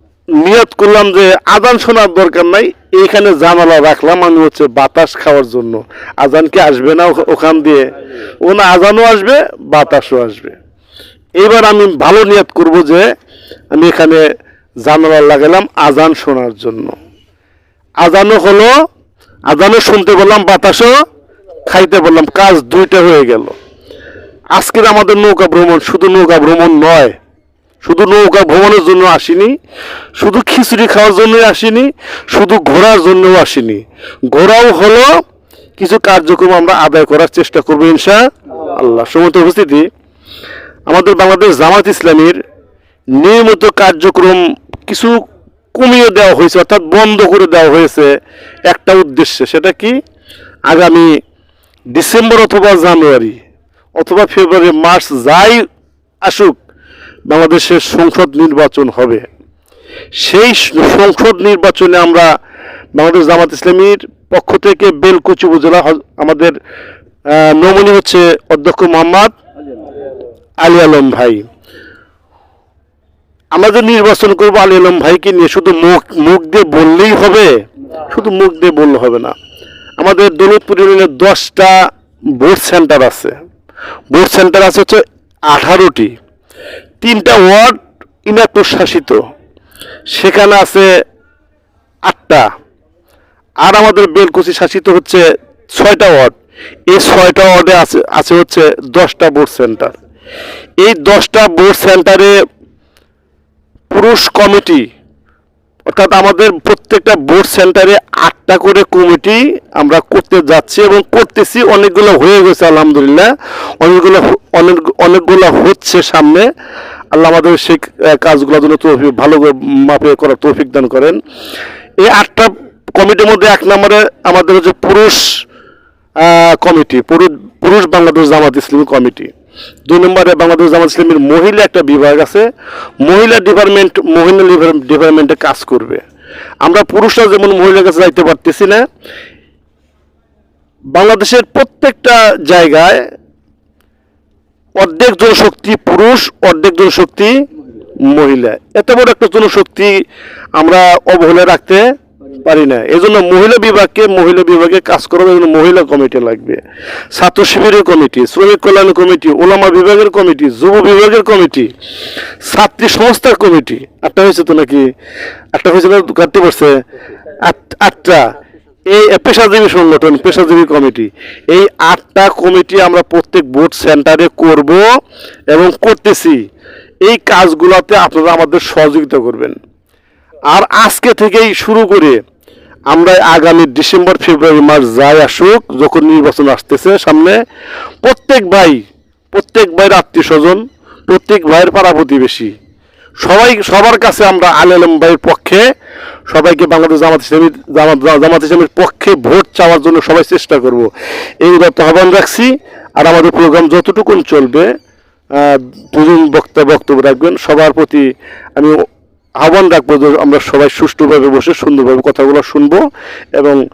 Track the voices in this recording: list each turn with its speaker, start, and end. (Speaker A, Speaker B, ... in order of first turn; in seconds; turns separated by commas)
Speaker A: 0.4-7.8, Speaker A: 8.5-10.6, Speaker A: 11.4-13.0, Speaker A: 13.8-14.2, Speaker A: 14.9-16.9, Speaker A: 18.0-18.7, Speaker A: 19.5-20.9, Speaker A: 21.7-23.5, Speaker A: 24.6-27.2, Speaker A: 27.8-29.5, Speaker A: 30.2-35.1, Speaker A: 35.8-38.2, Speaker A: 38.7-39.9, Speaker A: 40.9-42.4, Speaker A: 43.2-45.1, Speaker A: 45.8-48.1, Speaker A: 48.7-50.0, Speaker A: 50.7-51.1, Speaker A: 51.9-53.4, Speaker A: 54.0-55.6, Speaker A: 56.2-56.6, Speaker A: 57.3-59.2, Speaker A: 60.2-62.3, Speaker A: 63.0-66.6, Speaker A: 67.4-69.3, Speaker A: 70.6-71.4, Speaker A: 73.5-77.5, Speaker A: 78.1-79.3, Speaker A: 80.0-81.8, Speaker A: 82.4-83.3, Speaker A: 84.1-86.1, Speaker A: 87.0-89.2, Speaker A: 90.1-90.9, Speaker A: 92.1-92.5, Speaker A: 93.6-95.2, Speaker A: 95.8-96.3, Speaker A: 96.9-99.9, Speaker A: 100.8-102.3, Speaker A: 103.9-104.8, Speaker A: 105.9-113.3, Speaker A: 113.8-116.5, Speaker A: 117.1-121.2, Speaker A: 122.0-125.2, Speaker A: 126.2-129.3, Speaker A: 129.9-132.5, Speaker A: 133.0-136.0, Speaker A: 136.6-138.8, Speaker A: 140.9-143.0, Speaker A: 144.8-147.3, Speaker A: 148.1-149.9, Speaker A: 150.6-151.8, Speaker A: 152.4-156.6, Speaker A: 157.1-161.7, Speaker A: 162.4-164.8, Speaker A: 165.6-166.7, Speaker A: 167.4-168.2, Speaker A: 168.9-174.8, Speaker A: 175.5-176.4, Speaker A: 177.1-179.6, Speaker A: 180.5-182.2, Speaker A: 182.9-187.4, Speaker A: 188.0-188.8, Speaker A: 189.3-192.5, Speaker A: 193.2-195.6, Speaker A: 196.3-200.9, Speaker A: 201.4-204.7, Speaker A: 205.3-208.1, Speaker A: 209.4-212.8, Speaker A: 213.3-213.6